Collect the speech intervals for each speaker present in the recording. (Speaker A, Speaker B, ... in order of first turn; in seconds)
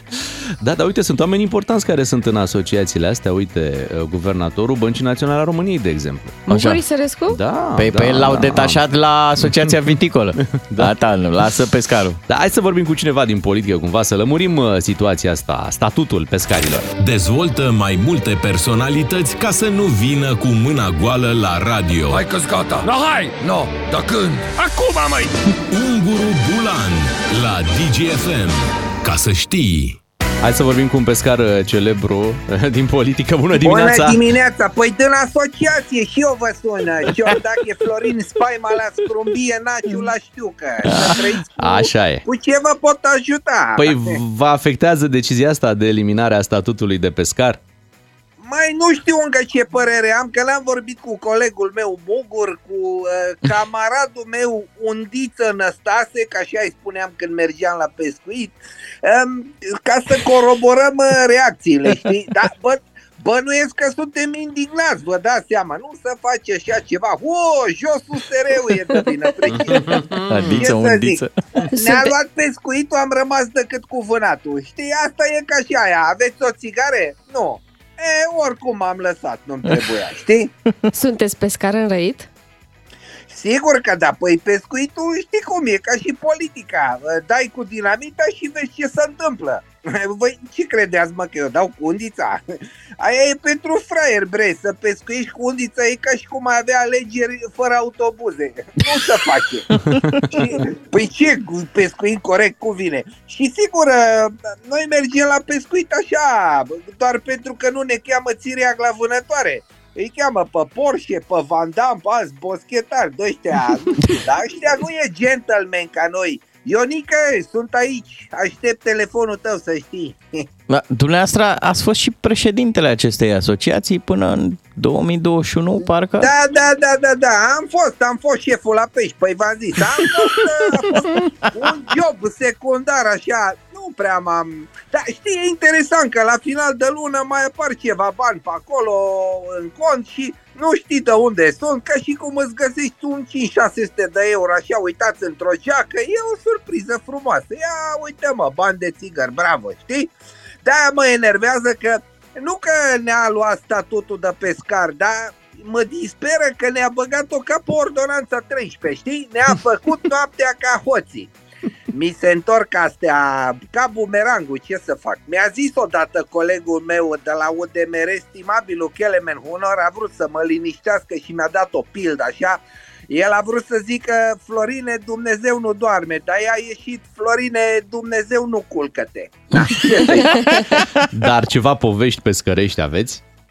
Speaker A: 0.6-6.4, 7.3-8.8, 9.4-10.0, 10.5-10.9, 12.3-16.9, 30.4-34.2, 41.6-42.2, 43.8-47.6, 181.1-183.2
Speaker B: 6.5-7.4, 71.7-72.1, 80.9-82.3
Speaker C: 6.5-6.8, 7.8-12.2, 40.9-41.2, 70.3-71.3, 120.7-126.3
Speaker D: 17.0-22.2, 25.7-30.0
Speaker E: 22.1-25.4
Speaker F: 33.6-44.1, 48.4-71.2, 71.8-80.5, 83.3-99.7, 100.3-120.4, 126.2-150.1, 150.6-161.3, 161.9-180.6